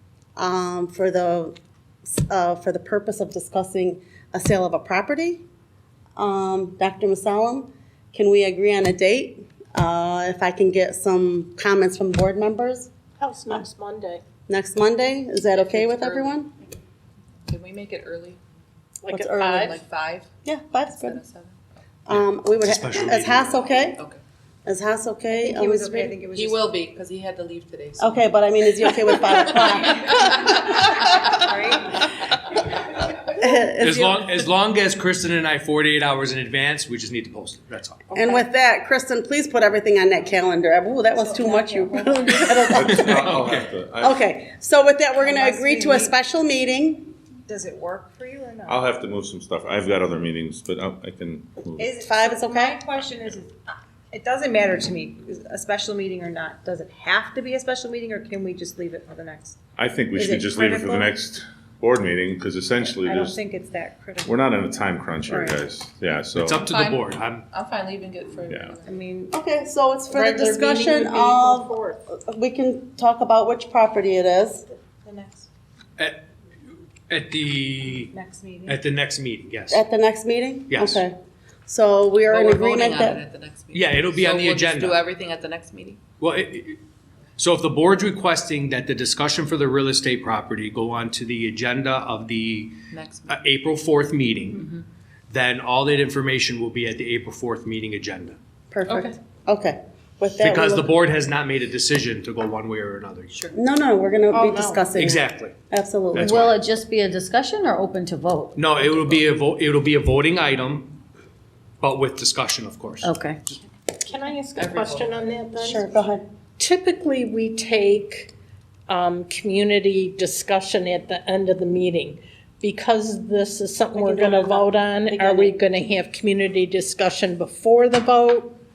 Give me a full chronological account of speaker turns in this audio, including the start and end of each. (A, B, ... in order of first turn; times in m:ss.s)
0:00.4-0:01.6 A
0:02.1-0:05.4 A
0:06.2-0:12.9 A
0:13.2-0:14.2 B
0:14.5-0:16.5 A
0:15.5-0:16.4 C
0:17.5-0:18.4 C
0:19.0-0:19.8 B
0:19.1-0:19.7 A
0:19.4-0:20.3 C
0:20.4-0:21.2 A
0:21.0-0:21.6 C
0:22.1-0:24.0 A
0:22.1-0:23.6 D
0:24.7-0:26.2 A
0:25.3-0:26.7 E
0:26.3-0:28.3 C
0:28.0-0:31.0 A
0:29.2-0:31.3 C
0:31.4-0:32.0 E
0:33.3-0:34.4 A
0:33.8-0:38.0 D
0:38.1-0:38.5 E
0:38.2-0:43.2 A
0:41.2-0:43.0 E
0:42.7-0:44.2 F
0:43.0-0:43.6 D
0:44.0-0:47.1 A
0:45.2-0:46.1 E
0:47.5-0:48.8 E
0:48.7-0:51.9 F
0:51.8-0:53.5 E
0:52.0-0:52.8 A
0:52.9-0:53.4 F
0:54.1-0:59.6 E
0:59.8-1:03.4 F
1:00.2-1:00.5 A
1:00.6-1:01.1 E
1:02.8-1:04.3 E
1:04.3-1:06.6 F
1:05.3-1:05.6 A
1:06.4-1:07.4 D
1:06.6-1:09.0 C
1:08.9-1:09.4 E
1:09.3-1:14.6 A
1:10.1-1:12.0 B
1:15.0-1:15.5 E
1:16.0-1:16.2 D
1:17.1-1:18.1 D
1:18.1-1:18.8 E
1:18.7-1:19.8 D
1:19.7-1:21.2 A
1:20.7-1:21.0 D
1:21.7-1:23.2 A
1:22.3-1:26.0 C
1:23.7-1:25.0 D
1:26.2-1:26.8 D
1:27.4-1:32.8 D
1:32.9-1:33.4 C
1:33.3-1:34.7 D
1:34.6-1:34.8 C
1:35.3-1:38.4 D
1:38.7-1:41.0 A
1:38.9-1:39.2 C
1:40.4-1:43.3 D
1:43.5-1:46.5 A
1:44.3-1:44.9 B
1:45.0-1:45.5 D
1:46.1-1:46.5 D
1:46.2-1:49.0 G
1:48.6-1:51.0 D
1:51.8-1:53.1 D
1:53.0-1:53.4 G
1:54.0-1:55.9 B
1:54.6-1:55.4 C
1:55.6-1:56.2 A
1:56.6-1:58.3 B
1:58.9-2:08.5 B
2:03.9-2:05.6 A